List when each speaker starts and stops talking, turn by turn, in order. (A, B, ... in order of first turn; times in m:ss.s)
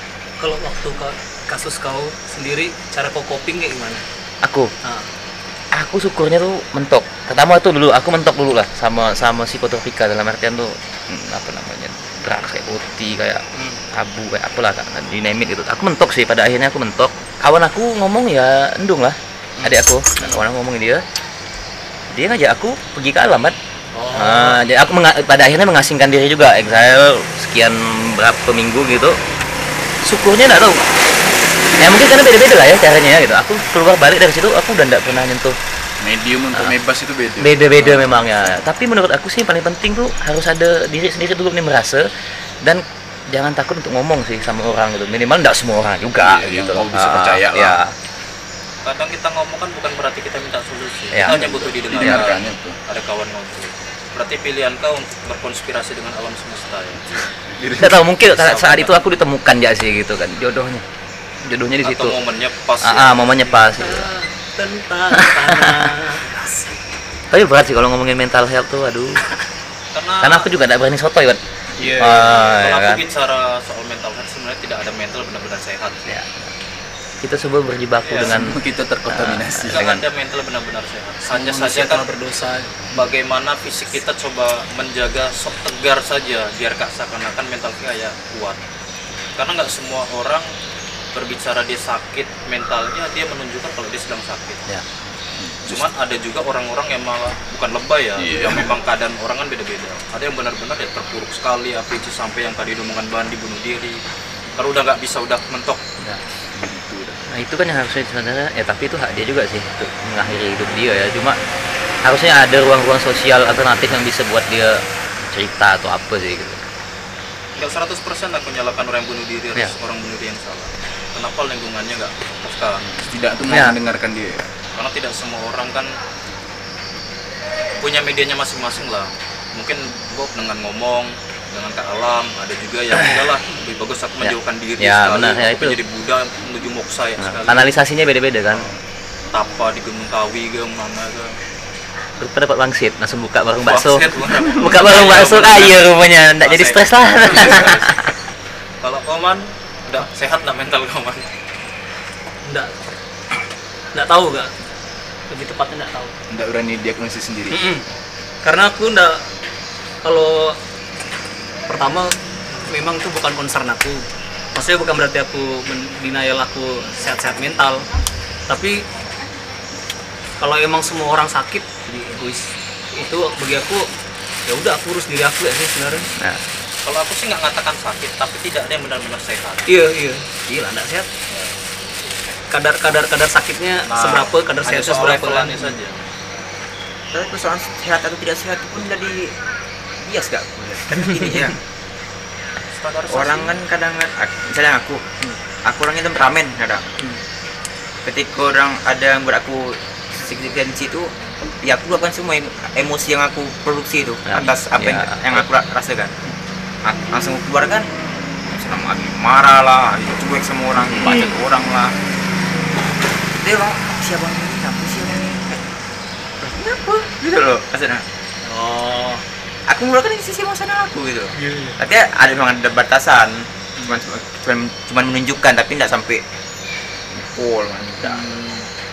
0:00.4-0:04.0 A
0:04.4-0:04.7 B
0:05.8-0:21.0 B
0:13.6-0:13.8 A
0:22.1-0:23.6 B
0:24.0-0:24.6 A
0:24.1-0:29.2 B
0:30.0-0:30.9 B
0:31.8-0:35.6 B
0:36.0-0:38.6 C
0:37.4-0:42.0 B
0:42.6-0:47.9 B
0:46.2-0:47.8 C
0:48.8-0:57.2 D
0:51.1-0:51.4 B
0:51.3-0:52.8 C
0:52.0-0:52.3 B
0:57.4-0:58.1 C
0:57.8-1:00.8 B
0:58.3-0:59.0 D
1:01.4-1:02.2 B
1:01.8-1:03.3 D
1:02.8-1:04.1 B
1:03.6-1:06.8 A
1:05.1-1:05.9 B
1:07.3-1:09.2 B
1:09.9-1:10.5 D
1:10.2-1:13.0 B
1:11.8-1:12.3 A
1:12.1-1:16.0 D
1:17.2-1:18.6 B
1:18.0-1:18.4 D
1:18.2-1:19.9 C
1:19.1-1:20.0 B
1:19.7-1:22.1 D
1:21.3-1:22.8 A
1:22.9-1:28.6 D
1:29.4-1:30.5 D
1:31.1-1:34.6 D
1:35.4-1:35.9 C
1:35.6-1:44.0 D
1:38.2-1:38.8 C
1:44.6-1:45.8 D
1:46.5-1:47.2 C
1:47.3-1:51.4 B
1:52.0-1:56.6 B
1:57.6-2:02.9 D
2:03.0-2:04.5 C
2:03.5-2:03.8 B
2:04.8-2:05.9 D
2:07.8-2:17.8 D
2:14.2-2:15.8 B
2:17.2-2:18.7 B
2:19.3-2:21.4 D
2:22.2-2:28.0 B
2:23.7-2:27.9 D
2:28.8-2:31.3 D
2:32.4-2:32.7 A
2:33.9-2:34.5 A
2:35.3-2:36.1 A
2:36.3-2:37.7 C
2:37.5-2:37.8 A
2:38.4-2:39.2 A
2:40.0-2:40.6 A
2:41.7-2:42.1 A
2:42.7-2:44.0 A
2:44.6-2:47.8 A
2:48.5-2:48.8 A
2:50.4-2:53.9 A
2:54.5-2:56.1 A
2:56.8-2:59.7 D
2:59.7-3:01.1 A
3:01.3-3:02.2 D
3:02.5-3:05.8 A
3:03.9-3:06.0 D
3:07.1-3:09.3 E
3:10.0-3:11.6 E
3:12.7-3:13.6 D
3:13.1-3:16.9 E
3:18.0-3:21.1 E
3:21.6-3:26.3 E
3:24.3-3:25.5 B
3:26.8-3:27.9 E
3:28.5-3:32.0 E
3:31.0-3:31.3 A
3:33.4-3:35.6 E
3:36.4-3:38.0 E
3:38.4-3:39.2 A
3:39.7-3:46.2 E
3:41.4-3:41.8 A
3:47.2-3:48.7 E